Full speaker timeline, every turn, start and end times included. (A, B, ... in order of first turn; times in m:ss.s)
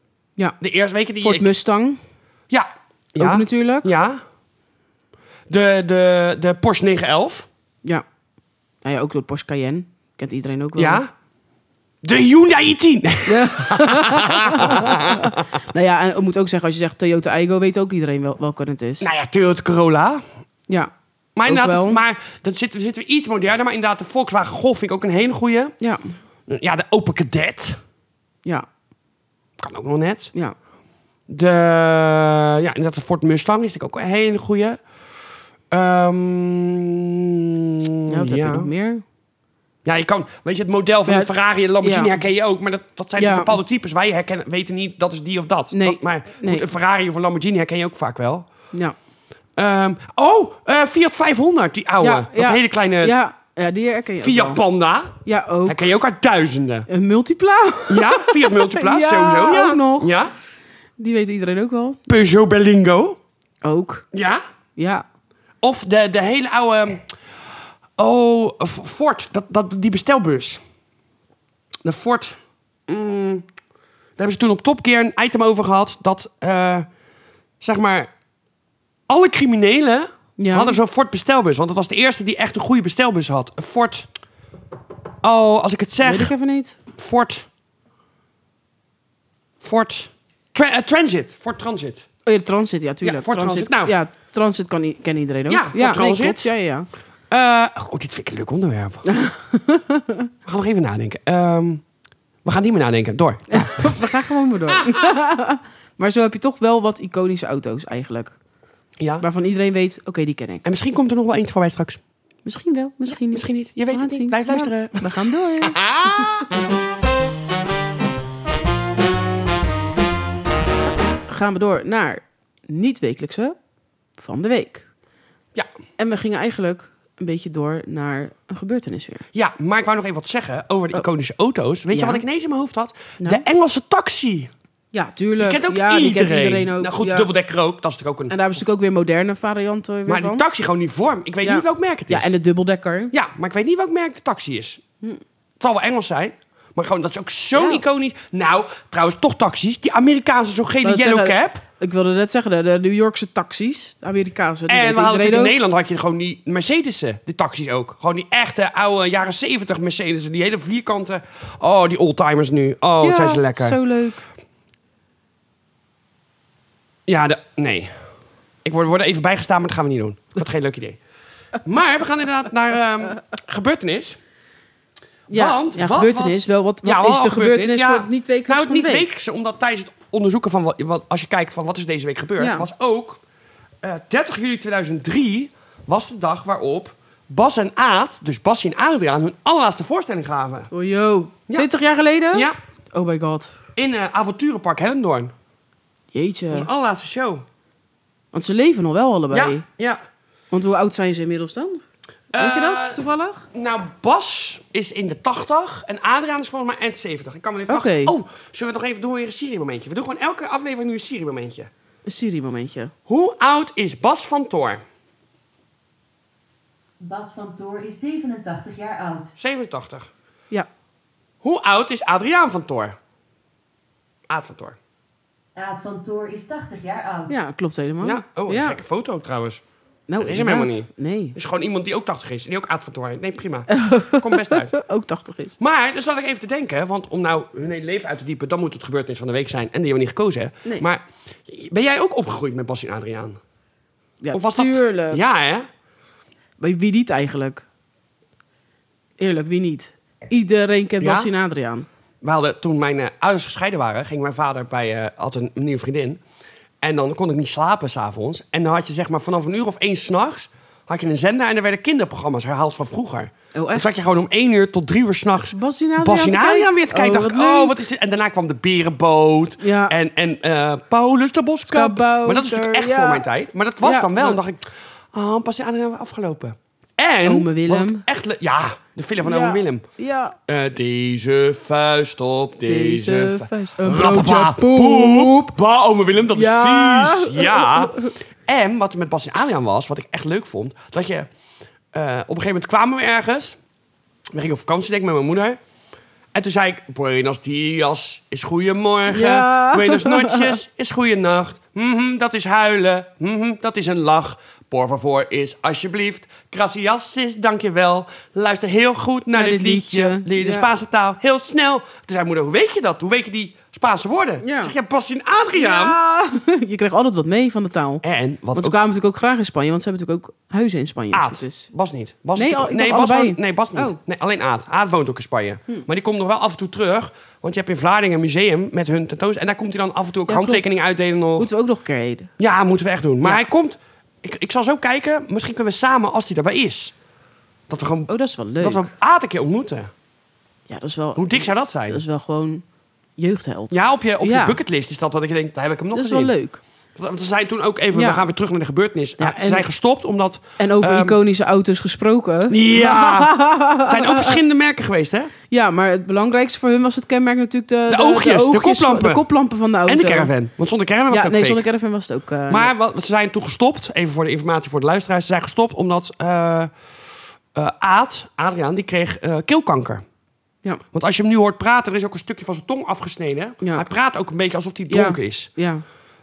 0:00.6-0:01.5 A
0:01.2-0:02.0 B
0:02.5-0:04.2 A
0:03.2-0:03.9 B
0:05.5-0:07.5 A
0:08.8-0:11.0 B
0:10.8-0:11.1 A
0:12.0-0:15.4 A
0:13.2-0:19.1 B
0:19.0-0:20.2 A
0:21.4-0:25.7 A
0:21.4-0:22.0 B
0:25.8-0:26.2 B
0:26.5-0:27.8 A
0:29.6-0:30.3 A
0:31.3-0:34.8 A
0:35.7-0:38.7 A
0:38.1-0:39.0 B
0:39.8-0:48.5 A
0:41.0-0:41.3 B
0:41.8-0:42.1 B
0:43.2-0:43.6 B
0:45.7-0:46.7 B
0:49.6-0:53.1 A
0:52.0-0:54.6 B
0:54.2-0:56.9 A
0:55.2-0:55.8 B
0:56.9-1:00.2 B
0:57.9-1:00.3 A
1:01.0-1:02.0 B
1:02.1-1:03.2 A
1:03.6-1:04.0 B
1:04.1-1:04.4 A
1:04.8-1:05.0 B
1:05.6-1:07.1 A
1:08.0-1:10.6 A
1:11.8-1:13.4 A
1:14.2-1:16.9 A
1:17.6-1:18.1 A
1:19.1-1:24.1 A
1:20.4-1:20.8 B
1:25.2-1:26.3 A
1:26.0-1:26.8 B
1:27.0-1:27.4 A
1:29.6-1:32.1 A
1:32.2-1:36.9 B
1:33.0-1:33.9 A
1:35.5-1:36.5 A
1:37.3-1:39.0 A
1:39.0-1:40.3 B
1:40.4-1:41.8 A
1:42.4-1:44.1 A
1:43.5-1:48.4 B
1:44.7-1:45.1 A
1:49.0-1:49.2 A
1:49.2-1:50.6 B
1:50.6-1:52.0 A
1:52.4-1:56.3 B
1:53.1-1:55.0 A
1:55.6-1:56.4 A
2:01.2-2:03.6 B
2:04.2-2:04.9 B
2:06.0-2:09.2 B
2:09.3-2:14.5 A
2:11.9-2:12.2 B
2:14.9-2:17.3 B
2:15.4-2:18.4 A
2:18.3-2:20.4 B
2:20.1-2:22.3 A
2:21.4-2:23.1 B
2:23.1-2:24.8 A
2:25.6-2:31.6 A
2:27.5-2:27.8 B
2:30.8-2:35.6 B
2:34.7-2:43.8 A
2:43.0-2:44.2 B
2:47.1-2:47.9 A
2:48.6-2:51.0 A
2:51.6-2:54.2 A
2:55.3-2:59.0 B
2:55.3-3:03.2 A
3:02.4-3:02.6 B
3:03.8-3:10.7 A
3:10.7-3:13.5 B
3:13.8-3:15.3 A
3:16.1-3:16.7 B
3:16.5-3:17.4 A
3:18.3-3:19.6 B
3:19.3-3:20.0 A
3:20.5-3:21.8 B
3:22.3-3:23.0 A
3:22.3-3:23.5 B
3:23.5-3:31.7 A
3:27.7-3:28.1 B
3:32.0-3:32.9 B
3:33.1-3:34.8 A
3:37.0-3:39.3 C
3:39.4-3:40.1 A
3:41.4-3:42.9 A
3:44.3-3:44.8 A
3:45.6-3:47.4 C
3:47.3-3:48.8 B
3:48.0-3:49.6 A
3:50.1-3:51.4 B
3:50.2-3:54.7 A
3:53.7-3:55.6 B
3:55.6-4:03.4 A
4:04.2-4:05.2 B
4:04.3-4:05.7 A
4:06.6-4:07.6 B
4:09.2-4:11.8 B
4:11.0-4:11.3 A
4:12.2-4:16.2 A
4:16.8-4:39.8 A
4:23.5-4:24.0 B
4:25.5-4:27.8 B
4:29.6-4:30.0 B
4:31.6-4:33.2 B
4:33.8-4:34.4 B
4:37.2-4:38.0 B
4:39.2-4:40.4 B
4:40.5-4:51.3 A
4:42.6-4:45.5 B
4:46.3-4:48.1 B
4:51.9-4:53.6 A
4:54.3-4:55.6 A
4:56.3-5:16.0 A
4:59.1-5:00.6 B
5:09.3-5:10.7 B
5:14.4-5:14.7 B
5:15.5-5:18.0 B
5:18.0-5:18.8 A
5:18.5-5:21.7 B
5:21.1-5:31.5 A
5:22.4-5:24.0 B
5:30.3-5:30.7 B
5:31.4-5:32.3 B
5:32.4-5:37.0 A
5:37.7-5:39.9 A
5:38.1-5:38.9 B
5:40.7-5:42.6 B
5:41.2-5:42.0 A
5:43.2-5:44.6 B
5:43.7-5:46.3 A
5:45.9-5:46.6 B
5:47.0-5:51.2 A
5:47.9-5:48.2 B
5:49.2-5:49.7 B
5:50.6-5:54.4 B
5:52.5-5:55.3 A
5:55.5-6:00.3 B
5:57.9-5:59.3 A
5:59.8-6:01.6 A
6:01.1-6:02.7 B
6:02.5-6:06.7 A
6:07.5-6:10.0 A
6:10.9-6:15.5 A
6:14.9-6:15.8 B